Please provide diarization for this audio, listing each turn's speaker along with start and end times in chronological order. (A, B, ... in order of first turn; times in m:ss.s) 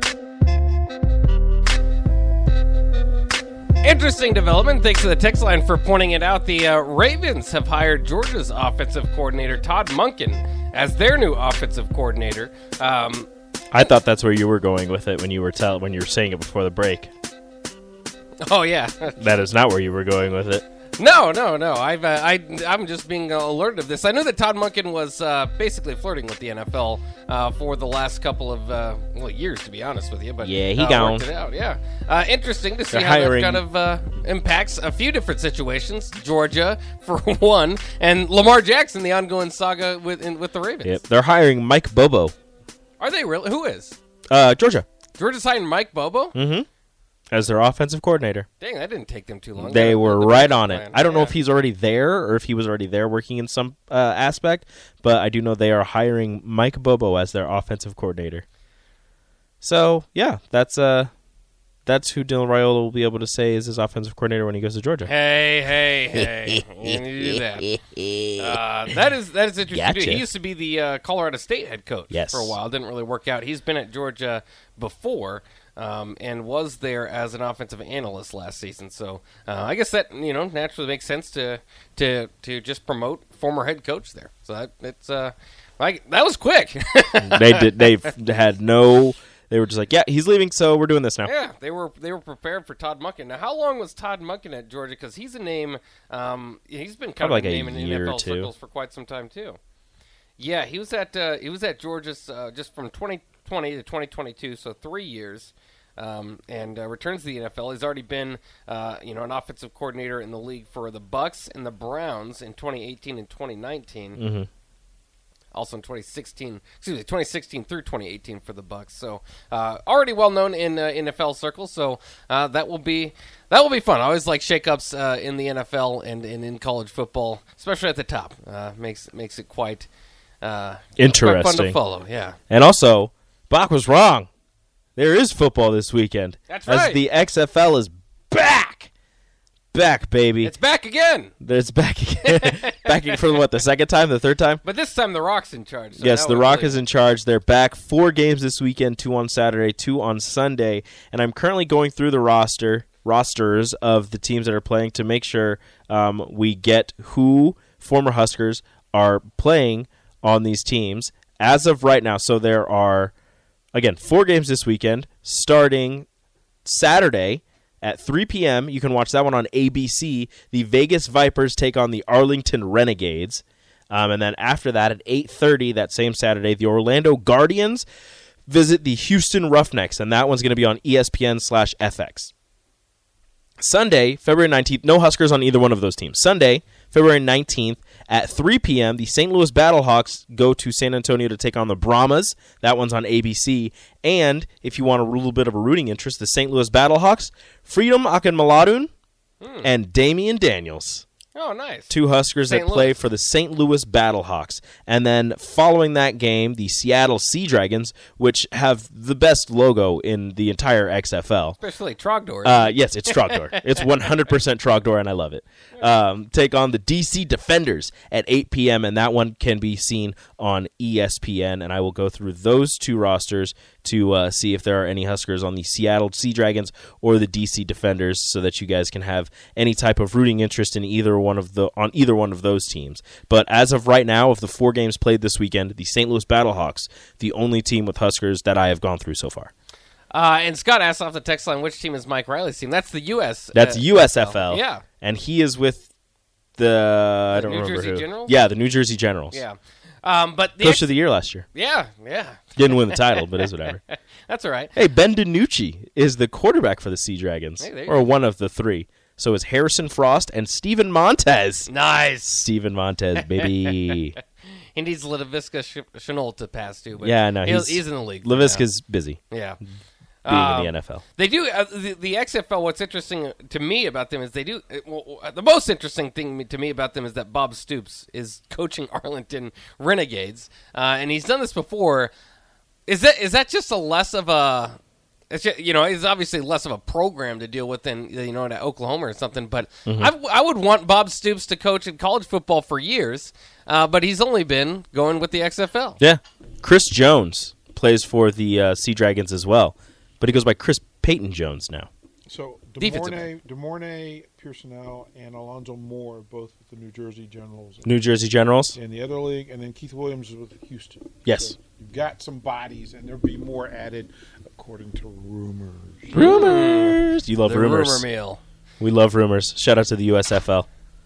0:03.8-0:13.3 A
0:13.7-0:17.1 B
0:18.4-0:19.2 A
0:19.2-0:20.6 B
0:21.0-0:41.0 A
0:30.4-0:31.3 B
0:32.9-0:33.6 B
0:40.8-0:42.3 B
0:43.0-0:44.0 A
0:44.3-0:44.9 B
0:45.2-0:46.4 A
0:46.4-0:46.7 B
0:47.3-0:48.5 B
0:48.6-0:51.4 A
0:49.6-0:58.4 B
0:59.6-1:01.1 B
1:01.9-1:05.1 B
1:05.0-1:07.8 A
1:06.2-1:08.6 B
1:08.4-1:27.9 A
1:09.6-1:10.3 B
1:12.1-1:12.6 B
1:27.2-1:31.3 B
1:31.2-1:39.6 A
1:37.2-1:38.5 B
1:40.4-1:54.2 A
1:54.2-1:54.5 B
1:55.5-2:09.9 A
2:10.4-2:12.4 A
2:11.0-2:11.8 B
2:12.5-2:14.3 B
2:15.0-2:18.9 B
2:16.5-2:17.0 A
2:19.7-2:20.5 B
2:20.4-2:21.3 A
2:21.4-2:24.6 B
2:22.2-2:23.3 A
2:24.6-2:26.8 A
2:26.0-2:43.1 B
2:43.7-2:46.1 B
2:46.6-2:57.9 B
2:58.5-3:02.3 B
3:03.6-3:18.9 B
3:19.4-3:19.7 A
3:19.6-3:21.0 B
3:21.3-3:21.9 A
3:21.9-3:31.6 B
3:22.5-3:23.0 A
3:31.6-3:33.9 A
3:32.4-3:59.5 B
4:00.1-4:04.8 A
4:03.5-4:05.9 B
4:06.6-4:09.4 B
4:07.3-4:08.4 A
4:09.3-4:10.9 A
4:10.6-4:11.5 B
4:11.5-4:14.7 A
4:12.6-4:13.8 B
4:14.8-4:21.7 B
4:17.6-4:18.1 A
4:21.7-4:22.4 A
4:22.2-4:24.2 B
4:23.2-4:24.0 A
4:24.7-4:28.7 A
4:27.0-4:29.2 B
4:29.3-4:29.6 A
4:30.2-4:42.1 A
4:30.3-4:31.0 B
4:42.9-4:44.8 A
4:45.3-4:56.0 A
4:49.9-4:50.1 B
4:56.0-5:01.9 B
5:02.3-5:08.0 C
5:02.8-5:03.1 B
5:02.8-5:03.3 A
5:07.8-5:08.8 B
5:08.7-5:16.3 C
5:11.2-5:11.6 B
5:16.1-5:18.0 B
5:16.1-5:18.4 A
5:18.8-5:20.7 B